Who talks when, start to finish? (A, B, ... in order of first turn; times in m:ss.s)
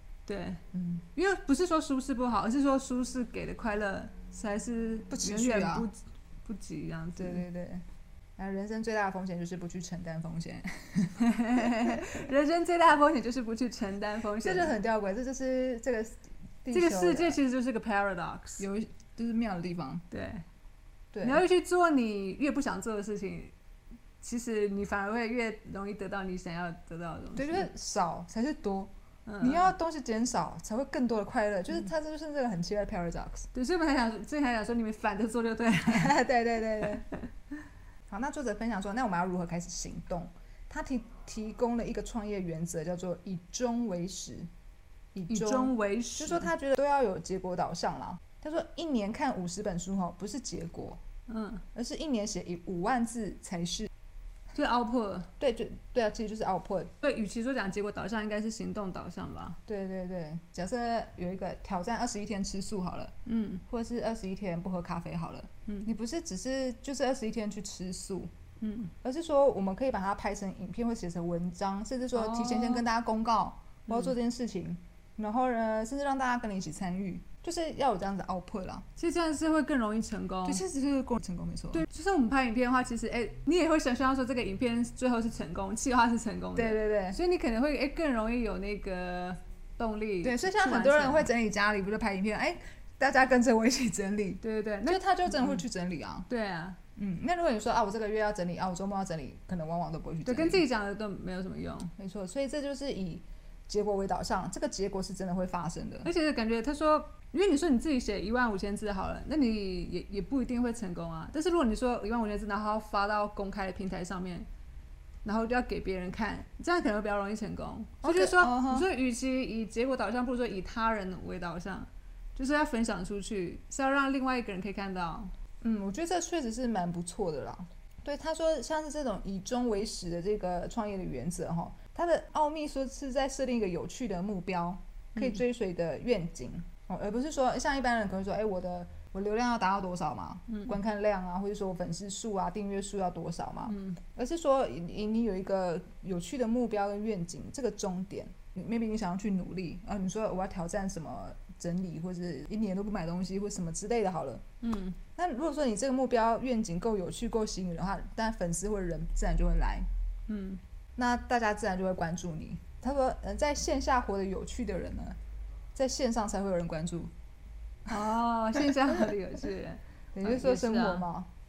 0:00.3-0:00.6 A
0:00.7-0:01.0 B
0:01.1-0:07.4 A
0:05.1-0:05.9 B
0:07.2-0:07.8 B
0:08.4-0:12.1 B
0:11.2-0:14.7 A
0:14.4-0:17.4 B
0:16.7-0:18.6 A
0:18.6-0:20.0 B
0:20.1-0:20.4 A
0:21.1-0:21.4 B
0:21.2-0:23.5 A
0:24.2-0:27.7 A
0:27.4-0:33.5 B
0:29.2-0:29.7 A
0:33.5-0:36.2 A
0:35.9-0:37.0 B
0:38.1-0:44.5 B
0:45.1-0:51.0 B
0:45.3-0:46.5 A
0:51.3-0:51.6 A
0:51.7-0:53.9 B
0:54.5-0:55.3 A
0:55.4-0:56.9 B
0:57.0-0:59.6 A
0:59.6-1:03.1 B
1:03.2-1:03.6 A
1:03.6-1:08.3 B
1:08.6-1:08.9 A
1:09.0-1:18.9 B
1:12.1-1:12.8 A
1:13.9-1:14.1 A
1:19.0-1:20.6 A
1:20.4-1:21.8 B
1:21.7-1:31.3 A
1:26.6-1:27.2 B
1:30.2-1:36.3 B
1:34.4-1:35.6 A
1:36.3-1:36.8 A
1:37.0-1:40.6 B
1:40.2-1:41.9 A
1:42.0-1:46.1 B
1:46.0-1:54.5 A
1:55.2-2:05.3 A
1:58.0-1:58.9 B
2:05.6-2:34.4 B
2:15.2-2:15.4 A
2:20.5-2:20.8 A
2:23.6-2:24.0 A
2:34.6-2:35.0 A
2:35.1-2:39.9 B
2:40.3-2:40.6 A
2:41.0-2:45.2 B
2:45.7-2:47.1 B
2:47.9-2:51.0 A
2:50.1-2:51.3 B